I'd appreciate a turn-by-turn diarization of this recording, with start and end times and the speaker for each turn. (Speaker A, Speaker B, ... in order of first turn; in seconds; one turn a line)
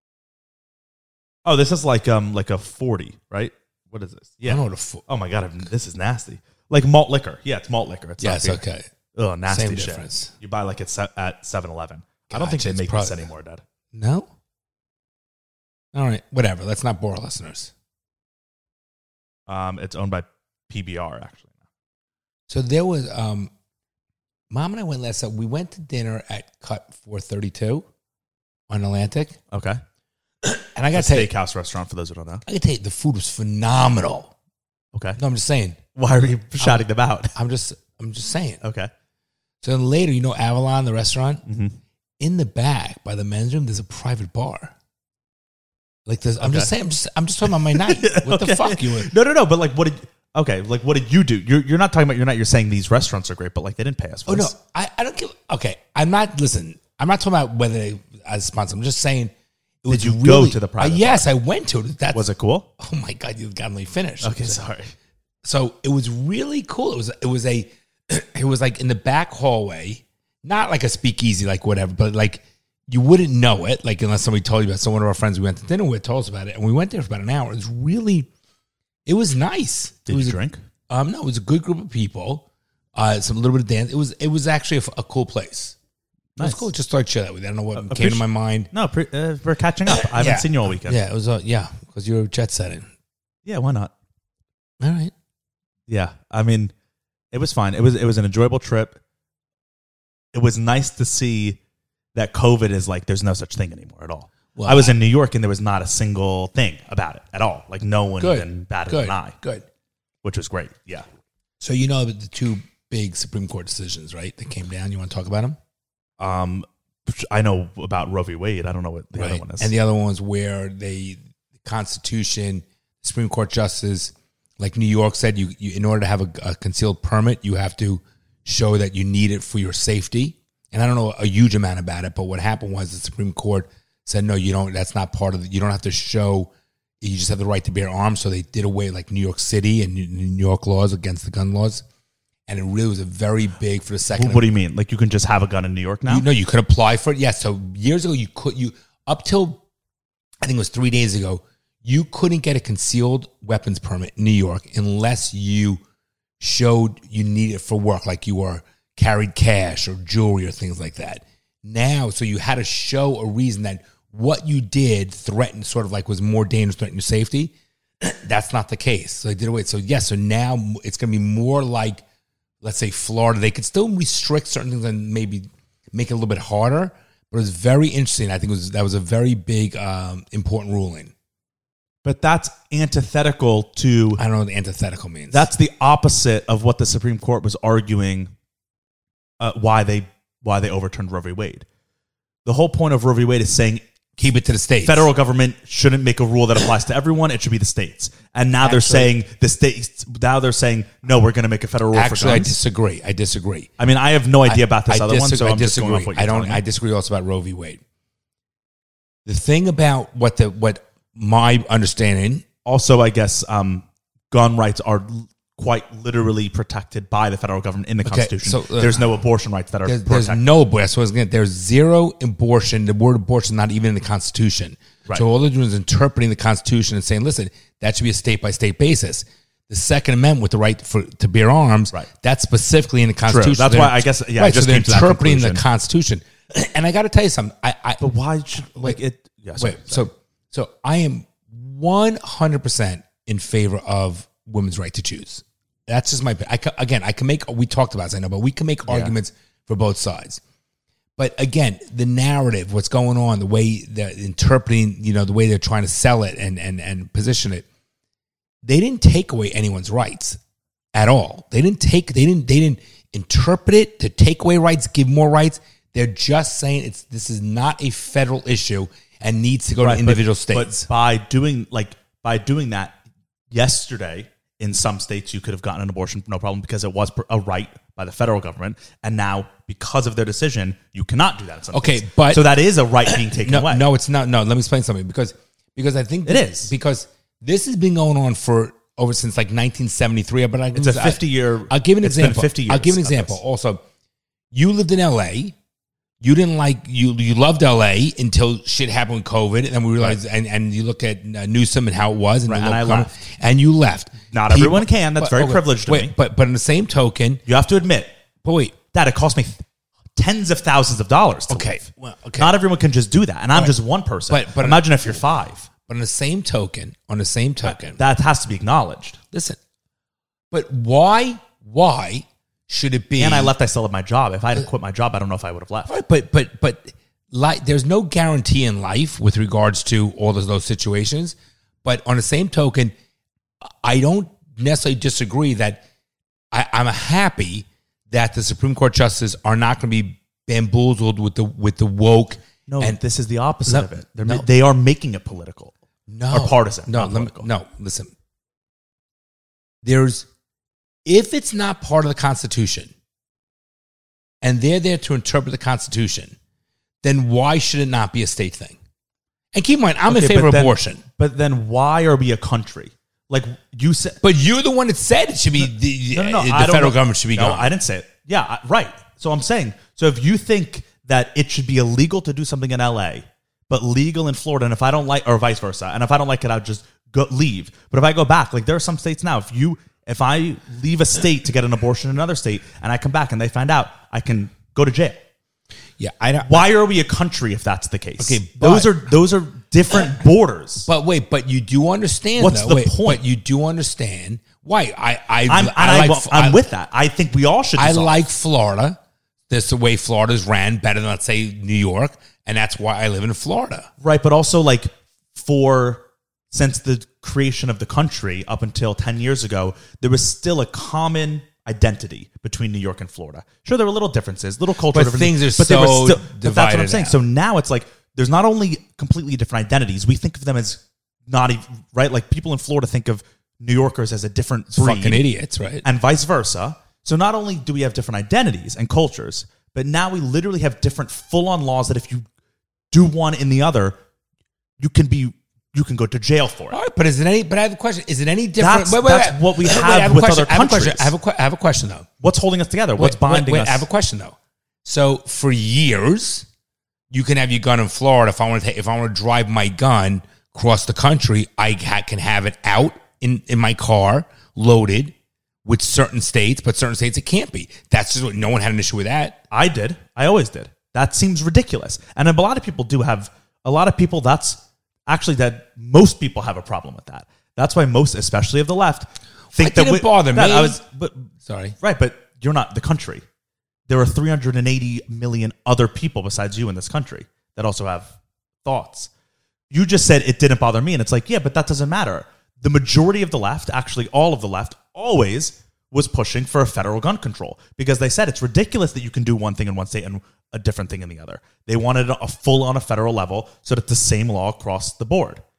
Speaker A: 1.4-8.6
Speaker B: 4.5-5.0
Speaker B: 8.2-8.9
Speaker A: 9.1-13.6
Speaker B: 9.5-10.3
Speaker B: 12.3-13.3
Speaker B: 13.9-14.3
Speaker B: 15.9-17.7
Speaker A: 19.5-21.5
Speaker B: 22.5-23.5
Speaker B: 24.5-27.8
Speaker B: 28.7-29.4
Speaker A: 29.5-29.8
Speaker B: 30.4-31.3
Speaker A: 30.9-32.4
Speaker B: 32.4-34.3
Speaker A: 34.9-35.2
Speaker B: 35.2-35.8
Speaker A: 36.0-37.3
Speaker B: 36.6-38.6
Speaker A: 38.6-38.9
Speaker B: 39.6-41.4
Speaker A: 41.5-41.8
Speaker B: 42.2-44.7
Speaker B: 46.0-49.1
Speaker A: 46.4-46.7
Speaker A: 47.4-54.5
Speaker B: 54.3-59.3
Speaker A: 59.8-61.2
Speaker B: 59.9-62.2
Speaker A: 62.1-62.7
Speaker B: 62.8-64.6
Speaker A: 64.2-64.9
Speaker B: 65.4-78.3
Speaker B: 79.0-80.4
Speaker A: 80.1-80.6
Speaker B: 80.9-82.4
Speaker B: 82.9-85.7
Speaker A: 86.3-86.7
Speaker B: 86.4-88.7
Speaker A: 87.8-91.0
Speaker B: 89.9-92.8
Speaker A: 93.4-93.9
Speaker B: 94.8-95.1
Speaker A: 95.9-96.7
Speaker A: 97.3-99.0
Speaker A: 100.3-101.6
Speaker A: 102.1-109.3
Speaker B: 104.5-105.0
Speaker B: 108.2-109.6
Speaker A: 110.2-111.0
Speaker B: 111.6-115.6
Speaker A: 116.2-119.7
Speaker B: 119.1-136.5
Speaker B: 137.0-141.8
Speaker B: 142.5-144.4
Speaker A: 144.1-146.2
Speaker B: 146.1-149.6
Speaker B: 150.4-155.8
Speaker B: 156.4-172.0
Speaker B: 172.6-181.1
Speaker A: 182.0-184.2
Speaker B: 184.2-185.5
Speaker A: 185.3-188.3
Speaker A: 189.4-191.6
Speaker A: 192.4-193.8
Speaker B: 194.2-195.1
Speaker A: 194.8-202.6
Speaker B: 198.6-199.1
Speaker B: 201.9-203.7
Speaker A: 203.8-206.6
Speaker B: 204.4-207.8
Speaker B: 209.2-212.4
Speaker A: 212.6-220.4
Speaker B: 218.0-219.0
Speaker B: 219.8-238.0
Speaker A: 233.3-235.6
Speaker A: 238.0-240.1
Speaker B: 238.6-239.0
Speaker B: 239.6-250.4
Speaker A: 248.9-249.1
Speaker B: 251.2-257.6
Speaker B: 258.6-260.4
Speaker B: 260.9-270.9
Speaker A: 269.8-272.9
Speaker A: 273.5-283.9
Speaker B: 281.7-282.5
Speaker B: 283.0-293.8
Speaker A: 286.2-286.7
Speaker A: 290.7-293.4
Speaker B: 294.5-295.5
Speaker B: 296.2-307.4
Speaker A: 302.5-303.1
Speaker A: 304.3-306.1
Speaker A: 307.4-308.1
Speaker B: 308.4-308.8
Speaker A: 308.9-309.6
Speaker A: 310.1-311.9
Speaker B: 311.5-312.5
Speaker A: 312.4-315.7
Speaker B: 314.3-315.2
Speaker B: 315.8-318.0
Speaker A: 317.6-319.2
Speaker B: 319.3-319.6
Speaker B: 320.5-323.5
Speaker A: 323.2-325.9
Speaker B: 325.9-332.9
Speaker B: 333.6-335.8
Speaker B: 336.5-343.0
Speaker A: 342.7-345.7
Speaker B: 343.7-344.4
Speaker B: 346.1-348.1
Speaker A: 346.3-347.5
Speaker B: 349.8-350.3
Speaker B: 351.1-352.9
Speaker B: 354.4-356.3
Speaker B: 357.0-358.8
Speaker B: 359.5-361.0
Speaker A: 360.1-364.2
Speaker B: 364.2-367.7
Speaker A: 365.6-385.2
Speaker B: 386.0-386.7
Speaker A: 386.4-390.9
Speaker B: 388.2-389.1
Speaker B: 390.9-396.7
Speaker A: 392.4-393.2
Speaker A: 395.5-398.2
Speaker B: 397.8-399.0
Speaker B: 399.5-403.9
Speaker A: 404.0-425.2
Speaker B: 414.9-417.2
Speaker B: 424.7-425.8
Speaker A: 425.8-432.2
Speaker A: 432.9-434.0
Speaker A: 434.8-436.8
Speaker B: 436.7-442.1
Speaker A: 438.6-441.1
Speaker A: 442.2-443.9
Speaker B: 443.0-446.4
Speaker B: 447.1-455.1
Speaker B: 455.6-459.4
Speaker A: 459.5-471.3
Speaker B: 469.5-470.8
Speaker B: 471.4-471.7
Speaker A: 471.8-473.2
Speaker A: 473.9-478.1
Speaker A: 478.6-479.1
Speaker A: 479.7-495.4